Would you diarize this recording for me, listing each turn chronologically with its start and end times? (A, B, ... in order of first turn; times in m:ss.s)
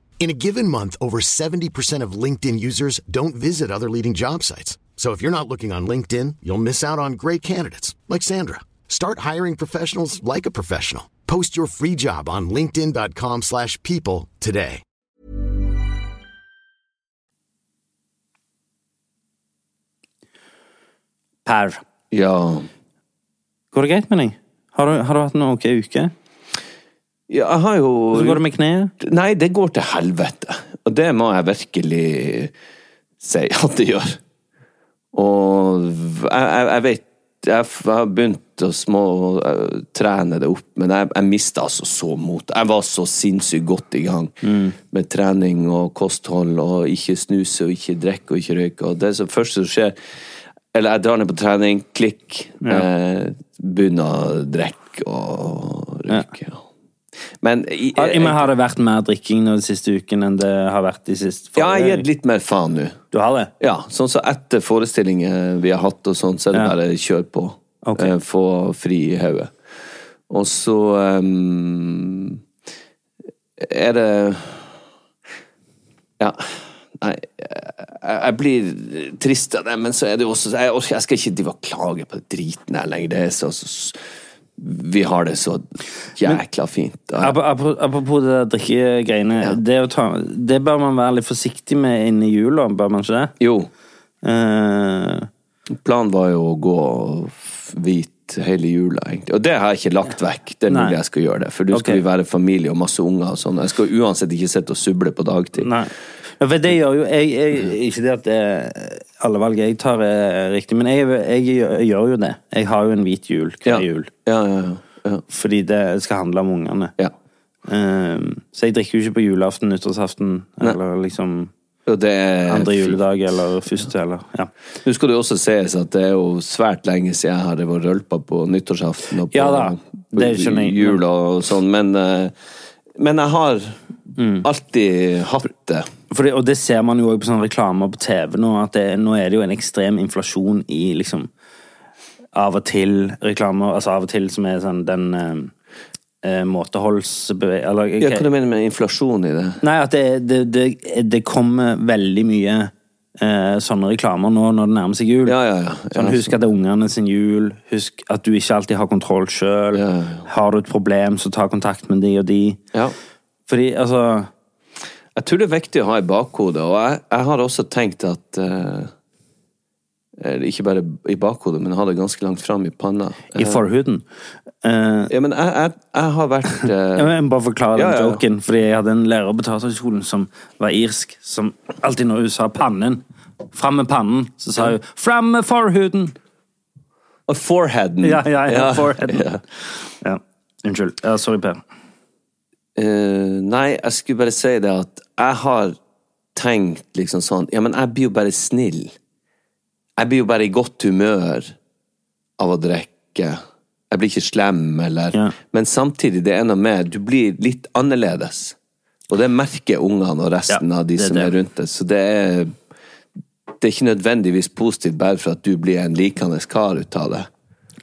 0:00.2-0:14.8 A
0:21.4-0:21.8 B
0:22.1-0:22.7 C
0:23.7-0:26.1 B
0:27.3-0:28.4 C
0:28.1-0:28.9 B
0:29.0-0:32.5 C
0:33.2-0:34.2 C
0:35.1-0:50.0 C
0:44.4-0:44.8 B
0:50.7-0:56.6 C
0:57.4-0:58.4 C
0:57.9-1:02.0 B
1:01.6-1:03.0 C
1:03.1-1:03.5 B
1:03.6-1:09.5 C
1:07.8-1:08.1 B
1:10.3-1:12.4 C
1:13.6-1:14.7 C
1:16.2-1:24.0 C
1:24.6-1:27.4 C
1:27.2-1:33.3 B
1:33.4-1:33.7 C
1:34.2-1:35.3 B
1:35.7-1:45.7 C
1:40.7-1:41.0 B
1:41.7-1:42.0 B
1:45.6-1:54.1 B
1:53.6-1:55.2 C
1:55.3-1:56.9 B
1:57.6-2:01.5 B
2:01.8-2:03.0 C
2:02.5-2:04.5 B
2:04.8-2:12.3 C
2:09.3-2:11.0 B
2:12.9-2:13.8 C
2:14.2-2:14.5 B
2:14.4-2:15.9 C
2:16.1-2:21.3 B
2:22.3-2:25.5 B
2:26.2-2:28.2 B
2:28.0-2:29.6 C
2:29.6-2:35.3 B
2:35.2-2:36.3 C
2:35.9-2:42.6 B
2:39.7-2:40.3 C
2:43.5-2:44.3 B
2:45.1-2:48.9 C
2:50.2-2:53.6 C
2:53.3-2:54.0 B
2:54.6-2:55.1 B
2:55.1-2:57.1 C
2:57.0-3:03.0 B
2:57.7-2:58.2 C
3:03.5-3:06.1 B
3:07.3-3:09.4 C
3:08.0-3:11.6 B
3:12.8-3:15.8 C
3:16.3-3:18.9 C
3:20.0-3:21.5 C
3:22.4-3:28.6 C
3:29.1-3:32.5 C
3:30.5-3:31.3 B
3:33.6-3:37.3 C